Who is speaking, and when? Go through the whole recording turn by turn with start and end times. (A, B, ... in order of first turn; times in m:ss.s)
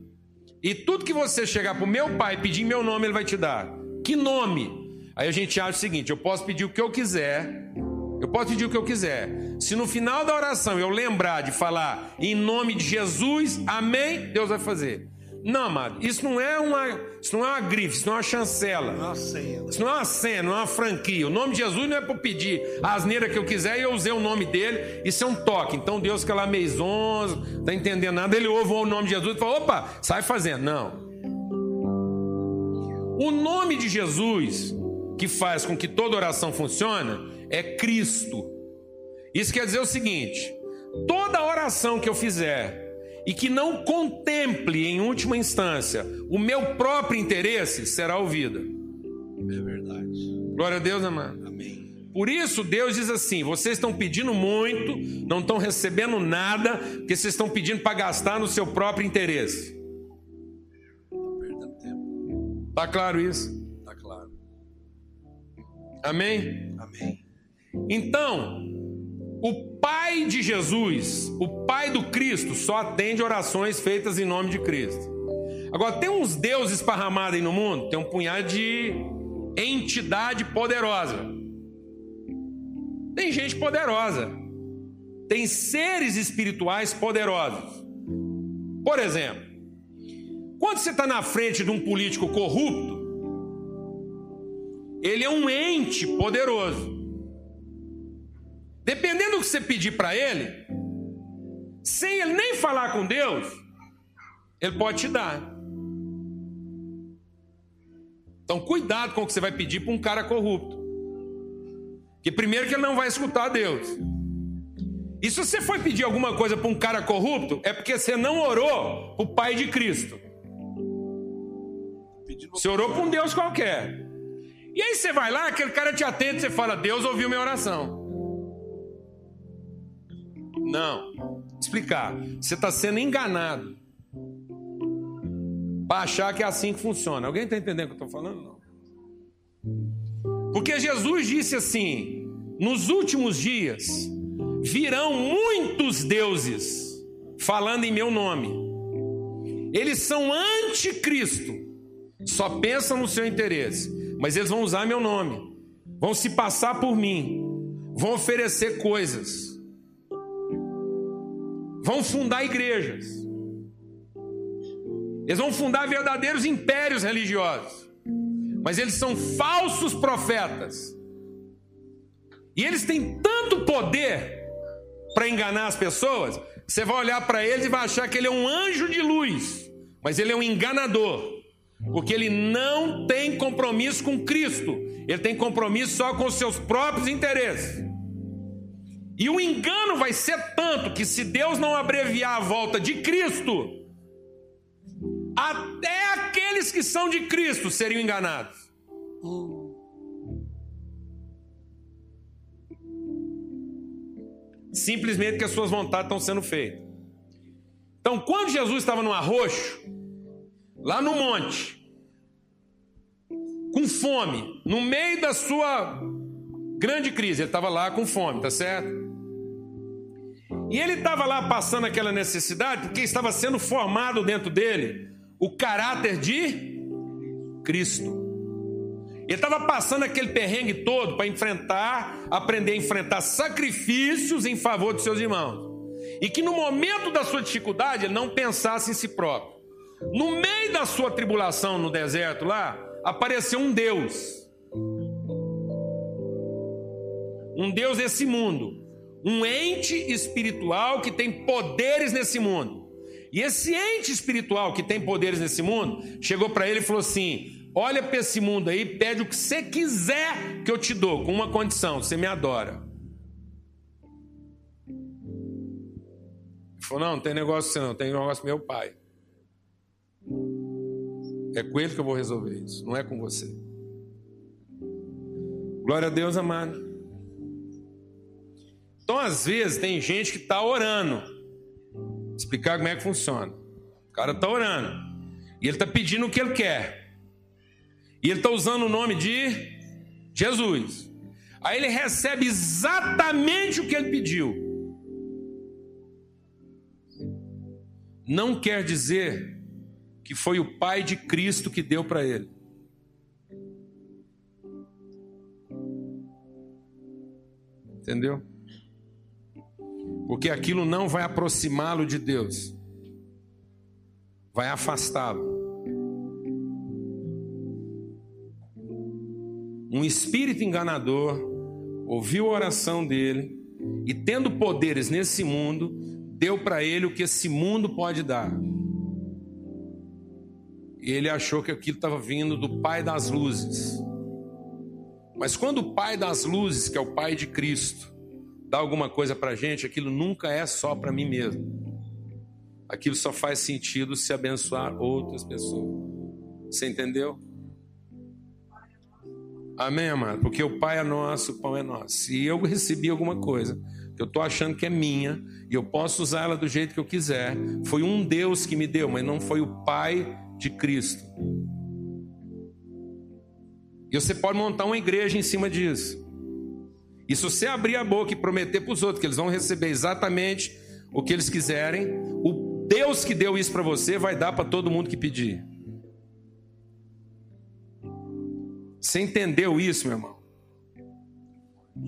0:00.6-0:19.1 A
0:18.9-0:19.7 B
0:19.7-0:31.1 A
0:33.1-0:38.5 A
0:39.3-0:48.7 A
0:49.4-0:50.4 B
0:50.5-0:51.4 A
0:51.4-0:52.0 B
0:52.0-0:59.8 A
1:01.1-1:02.2 B
1:02.7-1:03.6 A
1:03.8-1:04.3 B
1:06.0-1:06.8 A
1:06.8-1:07.2 B
1:07.9-1:15.1 A
1:15.7-1:21.5 A
1:23.1-1:24.4 A
1:25.3-1:27.8 A
1:28.8-1:29.6 A
1:30.6-1:33.3 A
1:35.0-1:37.1 A
1:38.8-1:40.7 A
1:41.8-1:43.6 A
1:44.6-1:45.6 A
1:48.5-1:50.9 A
1:52.2-1:54.0 A
1:55.2-2:00.2 A
2:02.2-2:03.2 B
2:02.6-2:04.1 A
2:04.7-2:08.1 A
2:10.6-2:13.8 A
2:15.8-2:18.6 A
2:20.5-2:28.8 A
2:29.7-2:31.7 A
2:32.2-2:39.6 A
2:41.8-2:43.3 A
2:45.2-2:47.9 A
2:48.6-2:51.0 A
2:52.5-2:54.5 A
2:55.1-3:07.9 A
3:09.2-3:13.9 A
3:15.3-3:18.6 A
3:24.7-3:26.9 A
3:28.0-3:29.9 A
3:30.8-3:31.8 A
3:33.7-3:39.1 A
3:40.7-3:46.9 A
3:47.6-3:48.3 A
3:49.3-4:04.5 A
4:07.5-4:22.8 A
4:26.8-4:29.0 A
4:31.5-4:33.6 A
4:35.8-4:36.9 A
4:39.0-4:41.3 A
4:42.4-4:43.6 A
4:44.1-4:47.1 A
4:48.2-4:49.8 A
4:50.3-4:54.8 A
4:58.2-4:59.6 A
5:00.2-5:02.5 A
5:08.0-5:08.4 A
5:10.2-5:12.8 A
5:14.5-5:15.6 A
5:19.9-5:28.6 A
5:31.0-5:34.0 A
5:35.4-5:38.1 A
5:38.7-5:41.7 A
5:42.9-5:46.1 A
5:46.7-5:47.4 A
5:49.8-6:01.3 A
6:04.1-6:06.2 A
6:07.3-6:15.6 A
6:19.0-6:20.4 A